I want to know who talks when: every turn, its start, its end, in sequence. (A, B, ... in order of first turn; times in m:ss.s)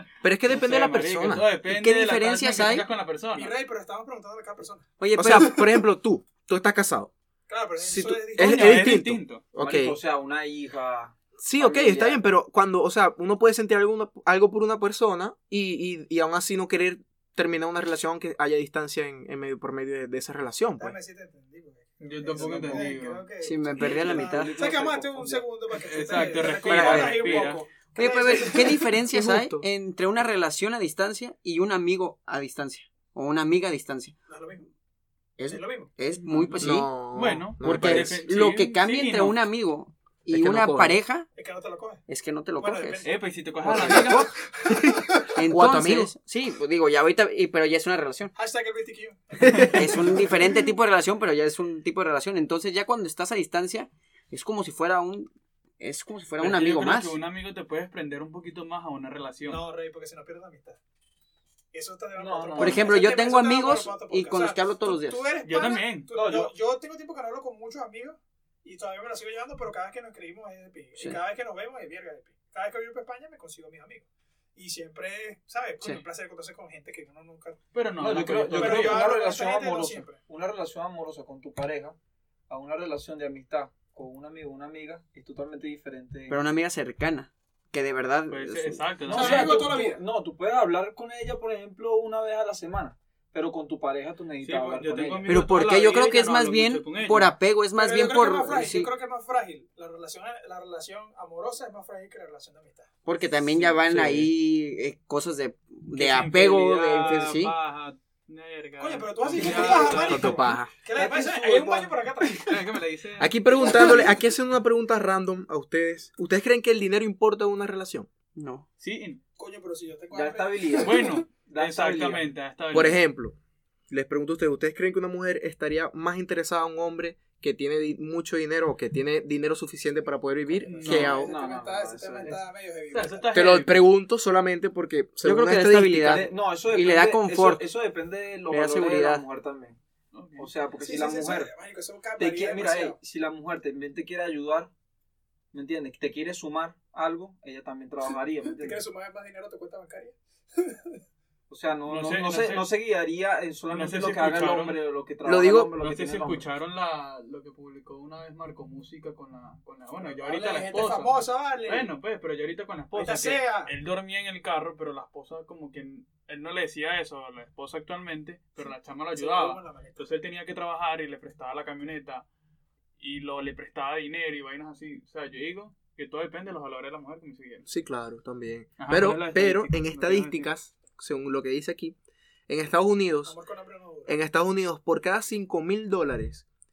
0:00.2-0:01.5 A
0:00.5-0:03.5 B
0:01.6-0:02.9 C
0:03.3-0:04.8 D
0:05.0-0:05.7 C
0:05.2-0:07.1 A
0:07.5-0:09.0 D
0:07.8-0:10.0 A
0:08.3-0:09.4 B
0:09.6-0:12.2 E
0:11.4-0:21.0 A
0:20.8-0:28.9 D
0:22.0-0:23.2 B
0:22.4-0:22.9 E
0:23.4-0:24.5 C
0:23.8-0:25.4 E
0:25.7-0:27.6 B
0:26.6-0:34.1 C
0:29.1-0:29.7 A
0:34.3-0:34.6 D
0:35.4-0:36.9 C
0:35.5-0:35.9 D
0:36.2-0:39.4 B
0:36.6-0:38.2 A
0:37.6-0:41.3 C
0:40.3-0:41.0 A
0:41.3-0:42.0 D
0:42.1-0:43.1 C
0:42.6-0:43.2 D
0:43.0-0:44.3 B
0:43.6-0:44.3 C
0:43.7-0:44.0 A
0:44.6-0:46.1 A
0:45.3-0:48.3 C
0:48.3-0:50.5 D
0:49.4-0:49.8 A
0:49.7-0:57.2 C
0:56.4-0:59.6 B
0:59.5-1:00.8 D
1:01.7-1:17.6 D
1:02.1-1:03.0 E
1:02.6-1:05.2 C
1:05.4-1:06.1 B
1:06.1-1:06.5 E
1:17.7-1:19.1 B
1:18.0-1:22.0 E
1:18.5-1:20.2 D
1:22.5-1:26.4 E
1:26.3-1:28.8 C
1:28.3-1:29.6 B
1:29.1-1:35.5 E
1:29.1-1:30.0 D
1:34.4-1:37.3 B
1:35.2-1:38.9 C
1:37.7-1:42.9 D
1:43.0-1:47.5 C
1:43.9-1:44.3 A
1:45.9-1:50.4 B
1:48.8-1:52.7 D
1:49.4-1:50.1 E
1:50.0-1:50.7 A
1:50.9-1:52.0 E
1:52.4-1:53.9 B
1:53.2-1:58.1 A
1:53.6-1:53.9 D
1:58.4-1:58.6 C
1:58.8-1:59.2 B
1:59.4-2:01.2 D
2:00.1-2:02.3 E
2:00.8-2:03.0 B
2:02.7-2:03.4 A
2:03.9-2:11.3 A
2:10.6-2:11.2 B
2:10.8-2:13.5 D
2:10.8-2:12.4 E
2:12.9-2:13.8 B
2:13.3-2:16.3 A
2:15.2-2:17.6 C
2:16.0-2:19.8 E
2:18.5-2:19.2 C
2:20.1-2:20.5 B
2:20.4-2:21.5 E
2:20.8-2:23.0 D
2:22.2-2:24.7 E
2:25.5-2:28.8 E
2:28.5-2:31.0 D
2:31.5-2:36.5 E
2:31.9-2:32.7 B
2:33.7-2:34.8 B
2:35.2-2:35.7 A
2:35.8-2:52.2 B
2:39.9-2:41.9 D
2:42.9-2:43.7 D
2:49.1-2:50.0 D
2:53.0-2:57.7 B
2:57.6-3:02.0 A
2:58.8-3:00.5 B
3:02.5-3:03.4 A
3:03.2-3:04.1 D
3:04.0-3:06.4 A